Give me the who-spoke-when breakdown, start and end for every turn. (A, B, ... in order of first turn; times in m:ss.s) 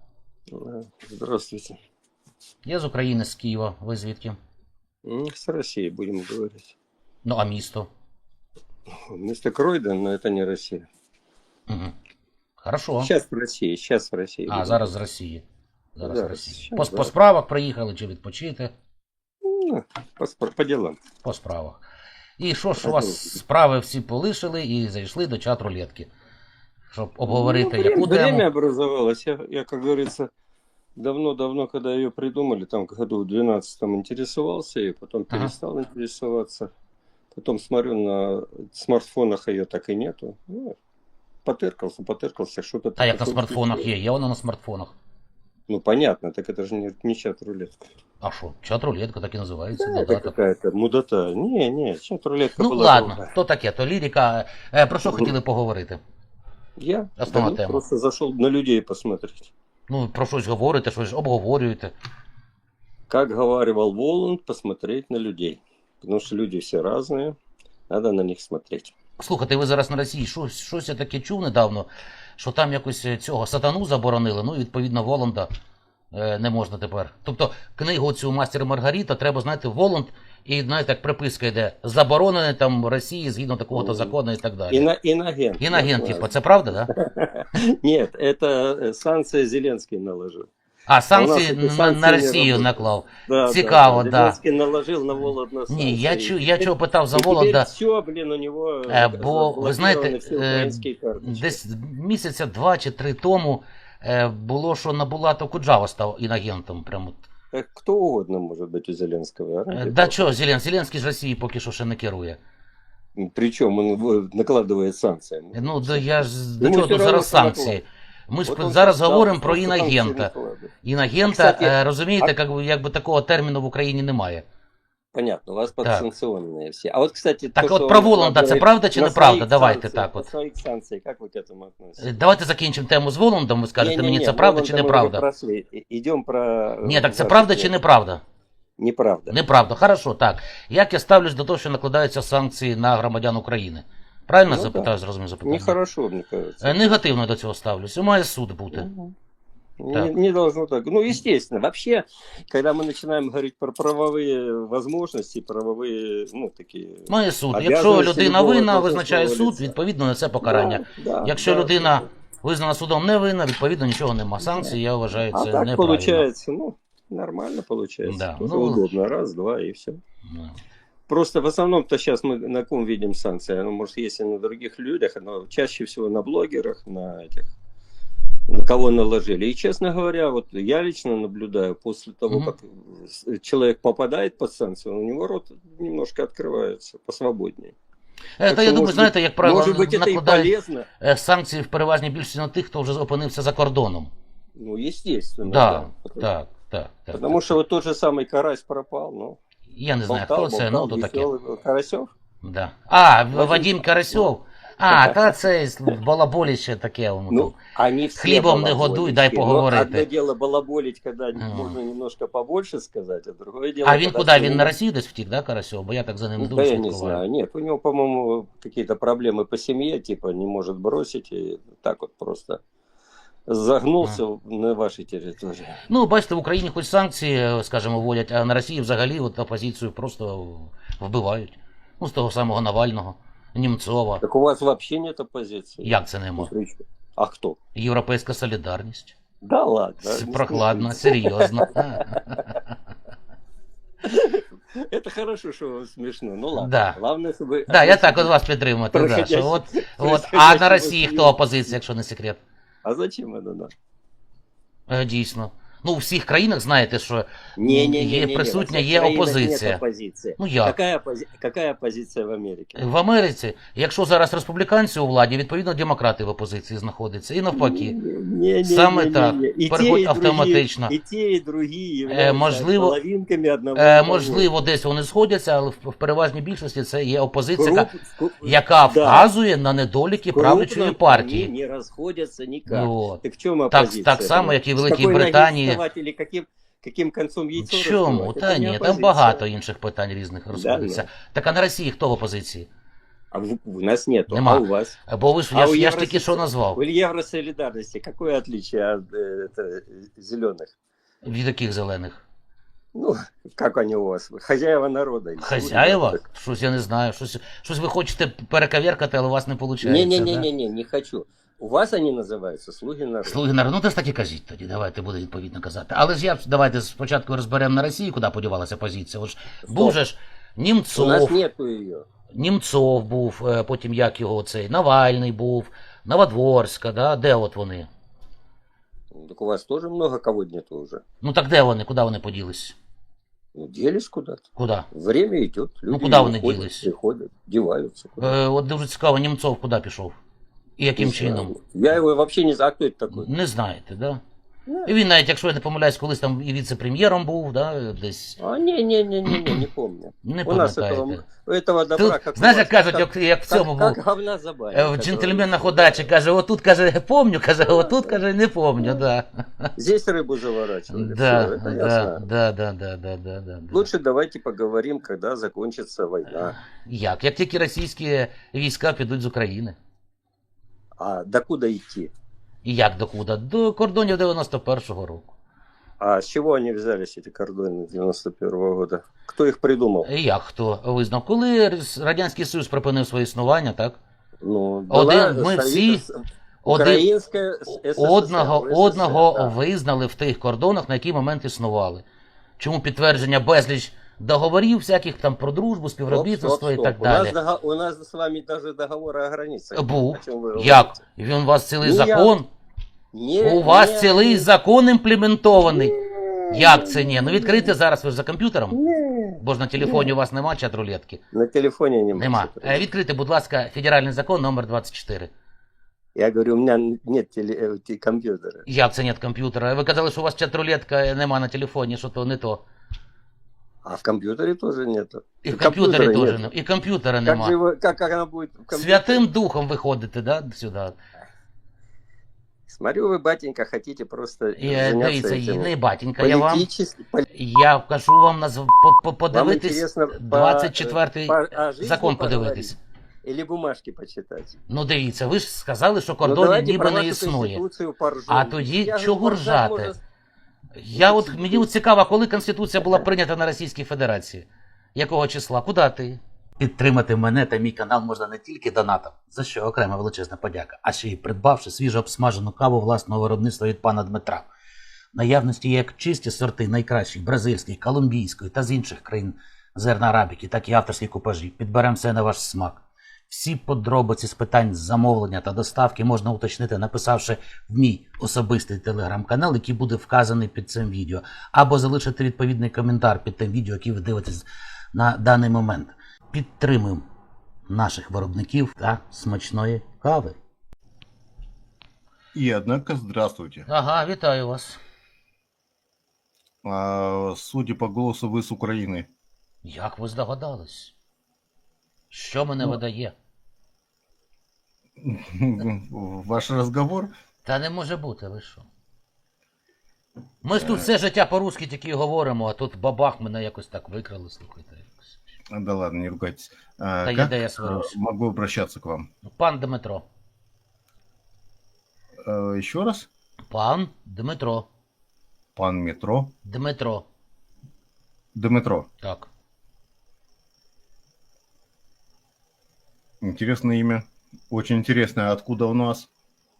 0:00.5-0:01.8 A
0:02.6-0:04.4 B
0:05.0-0:06.7 A
0:07.2-0:07.9 B
0:09.1-0:10.9 A
0:11.7-0:11.9 B
0:12.6-0:13.1 B
0:13.0-0:14.9 A
0:14.5-0:15.4 B
0:16.0-0:18.7 B
0:16.0-0:17.1 A
0:19.4-0:21.0 A
0:21.2-0:21.8 B
0:22.4-0:26.1 B
0:22.8-0:23.4 A
0:26.9-0:28.5 B
0:27.3-0:30.3 A
0:31.0-0:36.7 A
0:37.3-0:40.8 A
0:41.5-0:43.8 A
0:43.0-0:45.0 B
0:45.7-0:47.8 A
0:48.2-0:50.3 B
0:49.8-0:53.3 A
0:52.6-0:56.0 B
0:55.0-0:55.3 A
0:56.8-0:59.5 A
0:57.2-0:57.8 B
0:59.9-1:01.9 B
1:03.1-1:07.4 A
1:07.9-1:08.9 A
1:09.2-1:15.5 B
1:16.1-1:24.9 B
1:23.8-1:24.1 A
1:24.7-1:26.4 A
1:25.6-1:26.9 B
1:26.9-1:30.5 A
1:30.9-1:34.4 B
1:31.1-1:41.6 A
1:35.7-1:37.7 B
1:38.9-1:47.3 B
1:47.5-1:50.2 A
1:49.7-1:52.4 B
1:53.2-1:57.8 A
1:55.5-2:00.3 B
1:58.5-2:00.7 A
2:00.8-2:04.4 B
2:01.2-2:02.3 A
2:05.1-2:12.2 A
2:05.8-2:06.1 B
2:07.6-2:10.3 B
2:12.0-2:15.2 B
2:13.8-2:17.7 A
2:16.8-2:18.2 B
2:18.8-2:19.4 A
2:19.3-2:25.8 B
2:24.5-2:24.9 A
2:25.4-2:27.0 A
2:26.6-2:28.9 B
2:28.7-2:29.1 A
2:29.8-2:39.7 A
2:37.1-2:46.3 B
2:40.4-2:42.0 A
2:44.4-2:50.0 A
2:48.0-2:48.8 B
2:50.3-2:50.5 B
2:51.1-2:57.5 A
2:58.5-3:07.7 A
3:02.3-3:02.5 B
3:08.4-3:14.1 B
3:08.4-3:10.9 A
3:14.6-3:16.3 A
3:15.4-3:17.6 B
3:17.1-3:19.4 A
3:19.7-3:21.3 B
3:20.1-3:22.1 A
3:22.4-3:27.6 B
3:23.3-3:24.3 A
3:24.9-3:25.3 A
3:27.3-3:34.7 A
3:28.2-3:30.1 B
3:31.4-3:31.8 B
3:33.8-3:37.2 B
3:36.4-3:42.6 A
3:43.5-3:45.8 A
3:45.9-3:54.2 B
3:54.2-3:57.6 A
3:55.8-3:56.5 B
3:57.8-3:59.2 B
3:59.4-4:02.4 A
4:00.0-4:02.7 B
4:04.0-4:08.3 A
4:06.6-4:07.0 B
4:07.7-4:12.4 B
4:08.9-4:11.8 A
4:12.8-4:13.7 A
4:14.9-4:19.8 B
4:17.6-4:22.8 A
4:20.4-4:20.8 B
4:22.8-4:27.9 B
4:27.5-4:34.5 A
4:28.6-4:31.0 B
4:32.1-4:33.0 B
4:33.8-4:37.9 B
4:37.6-4:39.3 A
4:38.4-4:41.5 B
4:40.3-4:49.4 A
4:42.7-4:45.8 B
4:47.6-4:52.7 B
4:50.5-4:51.1 A
4:53.3-4:55.0 A
4:54.3-4:56.8 B
4:55.5-5:00.7 A
5:01.2-5:02.2 B
5:02.9-5:06.2 A
5:05.4-5:10.5 B
5:09.8-5:13.4 A
5:13.2-5:21.4 B
5:19.7-5:20.0 A
5:21.0-5:22.0 A
5:22.3-5:27.9 B
5:29.1-5:31.0 A
5:31.2-5:32.8 B
5:33.6-5:38.4 A
5:34.6-5:34.9 B
5:35.9-5:36.9 B
5:38.2-5:40.2 B
5:40.8-5:41.5 B
5:41.0-5:43.3 A
5:43.1-5:44.2 B
5:44.7-5:44.9 A
5:44.9-5:48.4 B
5:48.4-5:56.1 A
5:49.3-5:49.6 B
5:50.2-5:51.2 B
5:52.0-5:54.0 B
5:54.7-5:59.7 B
5:57.6-5:58.2 A
5:59.8-6:02.2 A
6:00.9-6:03.9 B
6:03.7-6:06.6 A
6:06.6-6:09.8 B
6:11.0-6:12.1 A
6:12.6-6:15.3 B
6:16.0-6:20.1 A
6:20.0-6:24.0 B
6:24.4-6:26.1 A
6:24.9-6:26.0 B
6:26.6-6:27.1 B
6:26.7-6:29.6 A
6:27.9-6:32.0 B
6:32.6-6:37.4 B
6:36.1-6:41.0 A
6:39.8-6:42.5 B
6:41.8-6:42.4 A
6:43.1-6:44.5 A
6:43.4-6:46.0 B
6:45.7-6:47.7 A
6:46.5-6:48.8 B
6:48.7-6:50.1 A
6:49.4-6:51.2 B
6:51.3-6:52.8 A
6:52.2-6:55.3 B
6:56.2-6:58.7 A
6:58.7-7:02.6 B
7:03.8-7:06.5 A
7:05.4-7:07.6 B
7:07.2-7:09.2 A
7:08.7-7:11.0 B
7:12.7-7:17.3 A
7:14.6-7:16.7 B
7:17.3-7:22.8 B
7:19.3-7:24.6 A
7:24.7-7:27.6 B
7:26.2-7:30.0 A
7:28.3-7:30.0 B
7:30.8-7:44.5 B
7:31.0-7:31.7 A
7:45.1-8:07.0 B
8:07.7-8:10.4 B
8:12.3-8:13.7 C
8:13.7-8:14.8 B
8:16.6-8:19.1 C
8:19.6-8:20.9 B
8:22.1-8:23.1 B
8:25.0-8:27.1 C
8:27.4-8:28.7 B
8:30.4-8:35.2 B
8:30.6-8:30.9 C
8:35.5-8:39.1 C
8:37.0-8:38.0 B
8:39.3-8:40.0 B
8:42.2-8:43.1 C
8:43.5-8:44.7 B
8:45.6-8:46.3 C
8:46.4-8:47.0 B
8:48.4-8:48.9 C
8:49.0-8:49.3 B
8:53.2-8:56.1 C